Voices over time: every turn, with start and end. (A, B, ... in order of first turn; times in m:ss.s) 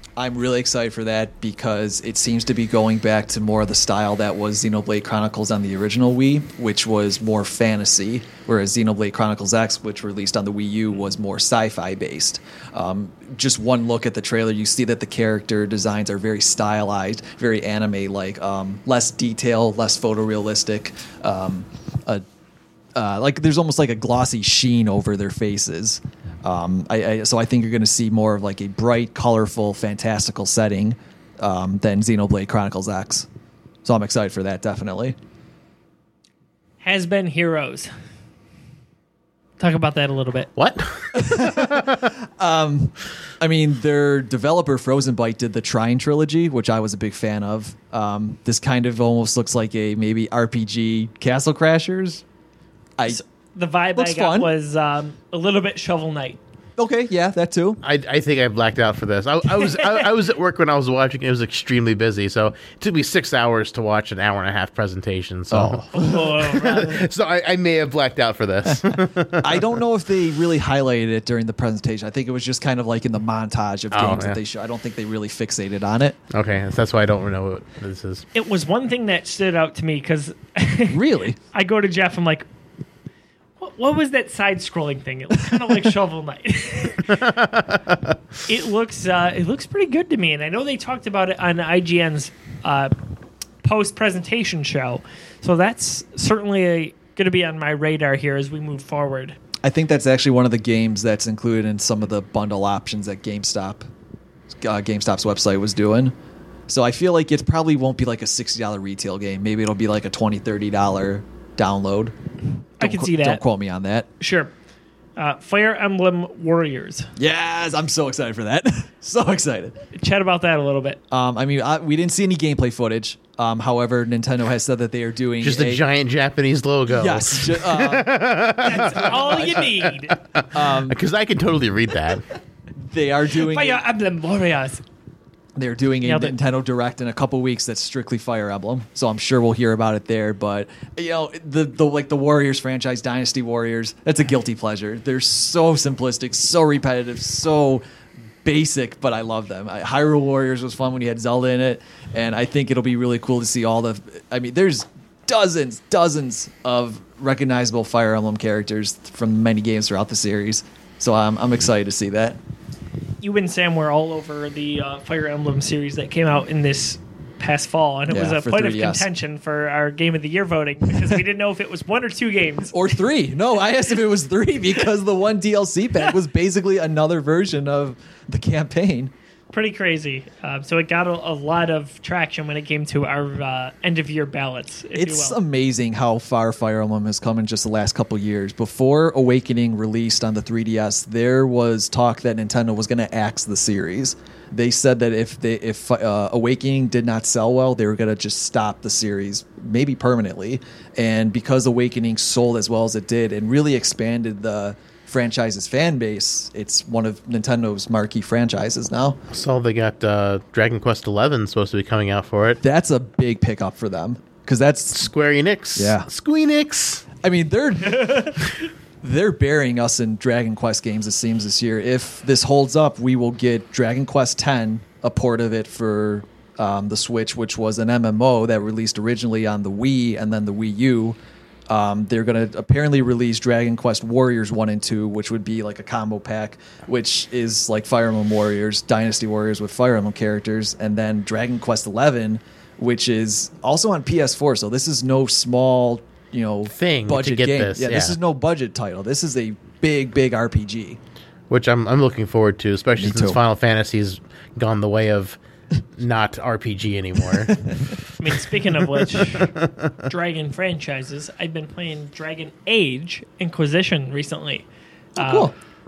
0:00.2-0:22.2 A
0:23.0-0:33.3 A
0:33.8-0:35.2 A
0:36.8-0:37.9 B
0:39.6-0:40.5 B
0:40.6-0:42.1 C
0:41.2-0:52.2 A
0:53.1-0:56.4 B
0:54.0-0:54.5 A
0:56.8-0:57.8 A
0:57.8-1:09.8 C
0:59.5-1:00.1 B
1:05.5-1:06.5 A
1:05.9-1:07.0 B
1:08.6-1:16.2 A
1:13.9-1:14.4 C
1:16.3-1:18.3 C
1:18.3-1:21.0 B
1:20.9-1:21.4 A
1:21.5-1:22.5 B
1:23.6-1:27.3 B
1:27.1-1:28.2 C
1:28.5-1:32.9 B
1:33.6-1:39.4 B
1:39.6-1:43.9 A
1:44.6-1:46.1 A
1:46.7-1:52.2 A
1:52.8-1:53.4 B
1:52.8-1:54.1 A
1:54.2-1:54.5 B
1:55.2-1:57.1 B
1:57.2-1:59.8 A
1:59.9-2:01.0 B
2:01.1-2:05.8 A
2:05.4-2:12.2 C
2:06.9-2:08.2 A
2:08.6-2:10.2 B
2:08.8-2:09.7 A
2:10.5-2:11.0 A
2:12.8-2:13.8 A
2:13.4-2:14.8 B
2:15.6-2:27.8 A
2:16.0-2:16.4 B
2:28.4-2:42.4 A
2:43.2-2:52.7 B
2:48.1-2:49.1 A
2:52.7-2:59.1 A
2:59.5-3:05.4 B
3:05.0-3:29.2 A
3:29.3-3:32.6 C
3:32.6-3:35.0 A
3:34.9-3:37.0 C
3:35.8-3:36.1 A
3:37.2-3:51.2 A
3:38.0-3:38.3 B
3:51.7-4:11.0 A
4:06.7-4:08.2 C
4:11.5-4:15.4 C
4:13.0-4:13.4 A
4:16.0-4:17.8 C
4:18.2-4:19.5 B
4:18.9-4:20.1 C
4:20.0-4:24.7 B
4:25.2-4:25.5 B
4:25.2-4:25.5 A